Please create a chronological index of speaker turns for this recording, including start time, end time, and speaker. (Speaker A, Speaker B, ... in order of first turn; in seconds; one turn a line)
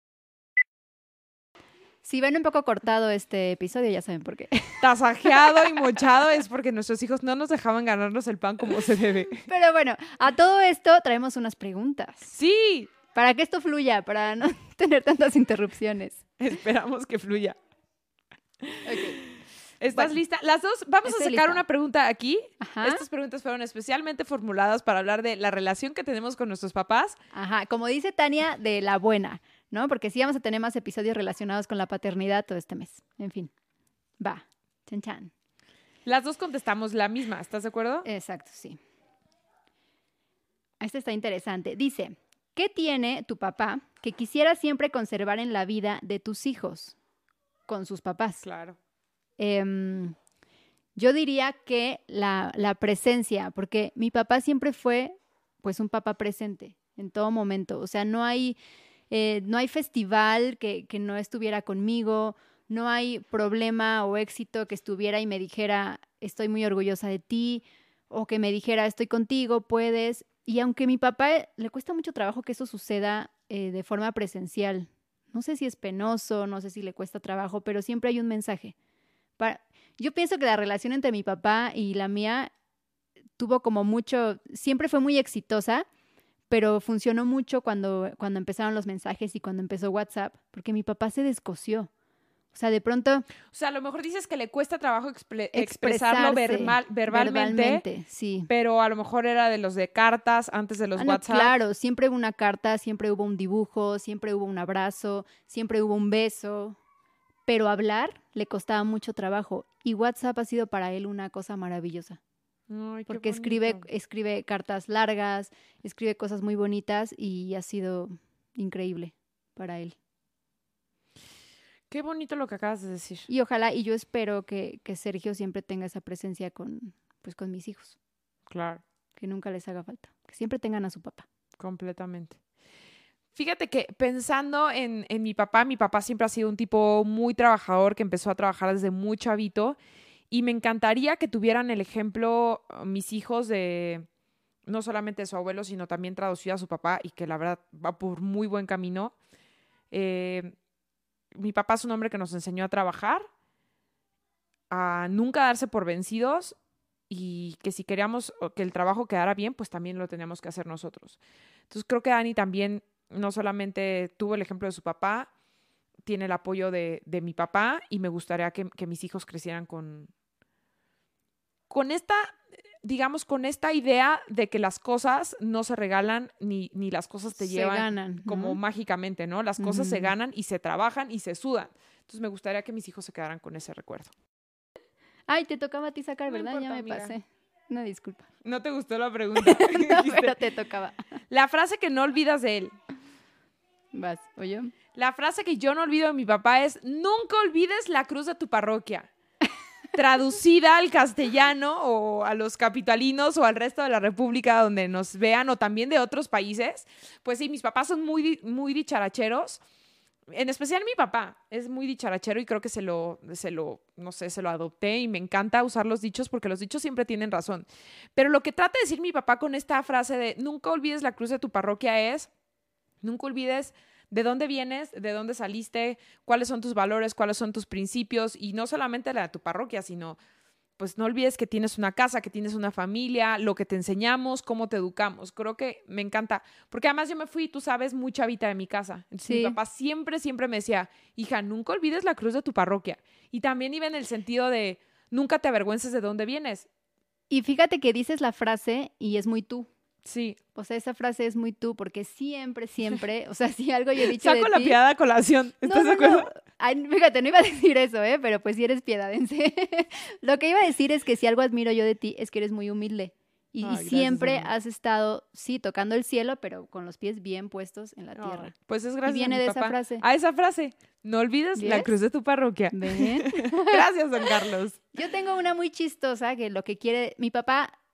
Speaker A: 2.0-5.7
Speaker B: 4.8-9.5
Speaker A: 9.5-12.3
Speaker B: 12.3-12.9
Speaker A: 13.1-16.2
Speaker B: 16.4-17.6
Speaker B: 18.6-27.2
Speaker A: 18.8-19.2
Speaker A: 21.0-21.6
Speaker A: 22.6-23.0
Speaker A: 27.3-33.5
Speaker A: 34.2-35.3
Speaker B: 36.0-38.0
Speaker A: 38.0-38.8
Speaker A: 40.8-47.0
Speaker A: 47.7-48.4
Speaker B: 48.4-48.8
Speaker A: 49.4-50.1
Speaker A: 51.0-58.6
Speaker A: 59.1-78.7
Speaker A: 79.4-82.5
Speaker A: 83.4-85.8
Speaker A: 86.5-91.9
Speaker A: 92.5-93.3
Speaker B: 93.5-97.8
Speaker A: 95.5-98.5
Speaker B: 98.5-101.5
Speaker A: 101.0-106.8
Speaker A: 107.5-112.2
Speaker B: 112.7-113.8
Speaker A: 113.1-119.9
Speaker B: 121.9-123.3
Speaker A: 123.3-127.9
Speaker B: 128.5-128.8
Speaker A: 129.2-131.2
Speaker B: 131.6-132.4
Speaker B: 133.3-139.8
Speaker B: 140.3-144.1
Speaker B: 144.7-149.1
Speaker B: 149.9-150.5
Speaker B: 151.3-153.2
Speaker B: 154.7-156.6
Speaker B: 157.1-161.2
Speaker B: 161.7-165.3
Speaker B: 166.0-170.1
Speaker B: 171.7-184.1
Speaker A: 177.4-178.6
Speaker A: 179.6-180.1
Speaker A: 185.3-188.3
Speaker B: 186.3-187.1
Speaker B: 188.4-190.3
Speaker A: 189.5-191.1
Speaker B: 191.3-192.7
Speaker A: 193.9-194.7
Speaker B: 194.9-199.1
Speaker B: 199.9-209.6
Speaker B: 210.3-222.3
Speaker B: 223.0-230.2
Speaker B: 230.8-246.7
Speaker A: 239.2-239.6
Speaker A: 247.3-249.7
Speaker B: 250.0-250.4
Speaker A: 250.5-254.8
Speaker B: 254.1-256.3
Speaker A: 255.6-268.5
Speaker B: 263.6-264.5
Speaker B: 268.1-274.8
Speaker A: 269.0-270.0
Speaker A: 271.6-271.9
Speaker A: 272.7-273.8
Speaker A: 274.9-277.7